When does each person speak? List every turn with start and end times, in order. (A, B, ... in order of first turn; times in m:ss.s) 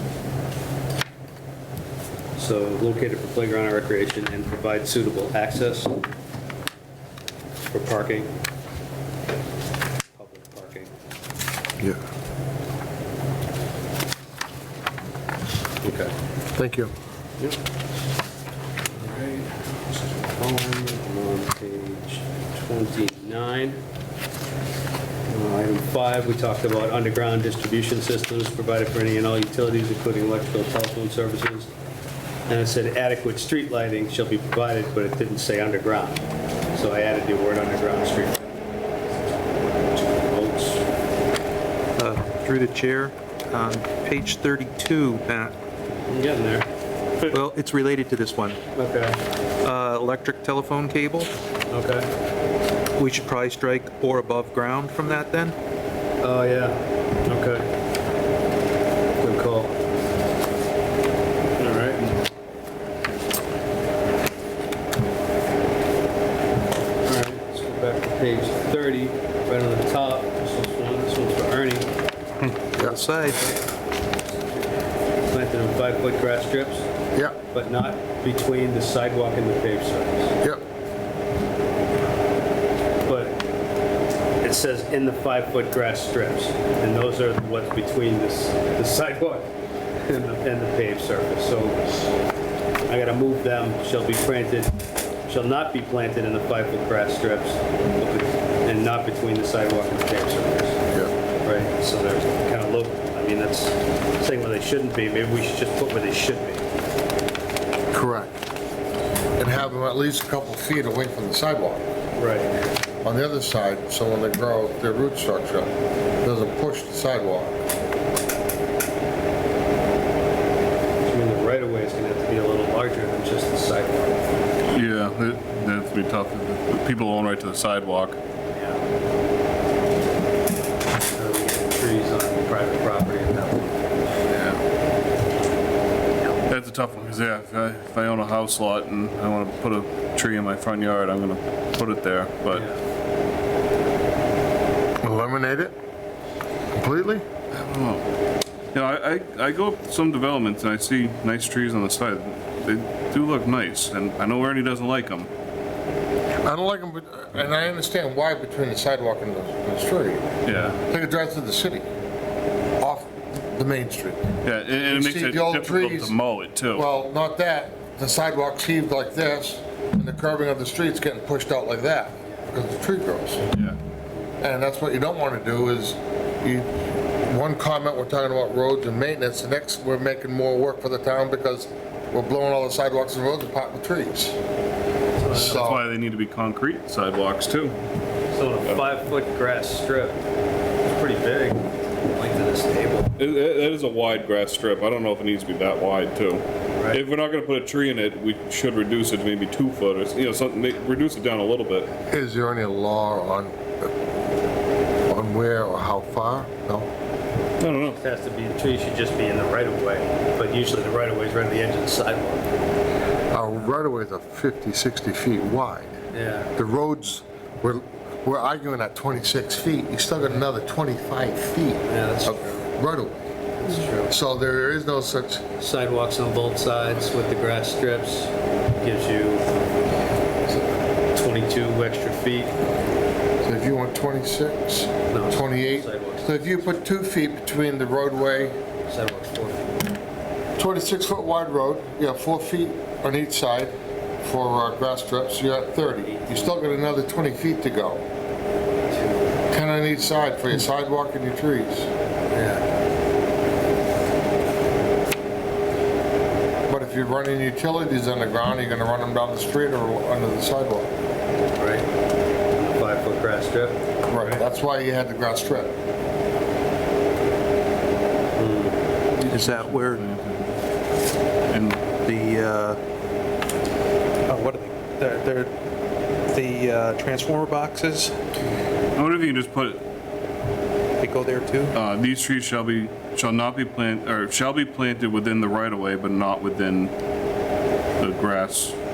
0:02.4-0:06.0 A
0:07.7-0:08.3 A
0:10.2-0:10.9 A
0:15.8-0:16.1 A
0:16.6-0:16.9 B
0:18.9-0:23.8 A
0:25.3-0:31.7 A
0:32.5-0:38.4 A
0:40.1-0:40.8 A
0:42.0-0:45.5 C
0:46.1-0:46.6 A
0:47.3-0:48.6 C
0:48.7-0:49.2 A
0:49.6-0:51.3 C
0:51.7-0:52.1 A
0:53.0-0:55.6 C
0:56.2-0:57.7 A
0:59.2-0:59.7 A
1:01.6-1:02.1 A
1:07.0-1:11.9 A
1:12.8-1:13.4 C
1:15.3-1:16.9 A
1:17.5-1:20.3 A
1:23.0-1:23.4 A
1:24.4-1:29.5 A
1:30.1-1:32.1 A
1:32.9-1:34.7 A
1:35.3-1:40.8 A
1:41.4-1:46.6 A
1:47.9-1:48.4 B
1:49.4-1:51.8 B
1:52.2-1:52.5 A
1:53.0-1:57.6 B
2:01.0-2:04.5 A
2:04.7-2:08.2 D
2:08.5-2:08.8 A
2:11.1-2:13.9 A
2:14.3-2:14.6 D
2:16.5-2:22.6 D
2:22.5-2:22.8 A
2:25.0-2:25.8 B
2:26.7-2:27.2 B
2:27.5-2:28.0 D
2:28.7-2:35.3 D
2:36.4-2:40.2 B
2:40.4-2:40.8 D
2:40.8-2:41.9 B
2:42.8-2:44.3 B
2:44.4-2:46.8 D
2:44.8-2:46.1 B
2:46.7-2:53.5 B
2:53.5-2:53.8 D
2:54.4-2:56.7 B
2:57.2-3:04.4 B
3:05.2-3:05.6 A
3:05.3-3:05.8 B
3:05.3-3:07.8 D
3:08.3-3:10.2 A
3:10.8-3:13.1 A
3:13.2-3:21.9 D
3:22.0-3:23.9 B
3:25.1-3:26.9 B
3:27.6-3:28.0 D
3:28.0-3:32.5 A
3:33.3-3:36.0 B
3:36.1-3:36.5 A
3:36.5-3:43.3 B
3:41.8-3:42.7 A
3:43.6-3:44.1 A
3:44.1-3:45.4 B
3:45.6-3:49.4 A
3:50.5-3:52.5 A
3:53.4-3:58.6 B
3:55.1-3:56.7 A
3:58.9-3:59.7 A
4:00.6-4:08.0 B
4:06.0-4:06.7 A
4:08.9-4:09.3 A
4:09.5-4:11.9 B
4:12.3-4:12.7 A
4:16.7-4:20.9 B
4:21.6-4:21.8 A
4:22.6-4:24.4 A
4:24.1-4:25.8 B
4:28.4-4:28.8 A
4:29.1-4:30.6 D
4:29.3-4:30.0 C
4:31.5-4:31.8 D
4:32.0-4:32.8 C
4:34.3-4:35.5 C
4:36.3-4:38.1 C
4:38.9-4:39.8 D
4:41.0-4:41.7 C
4:41.7-4:46.9 D
4:48.0-4:48.8 D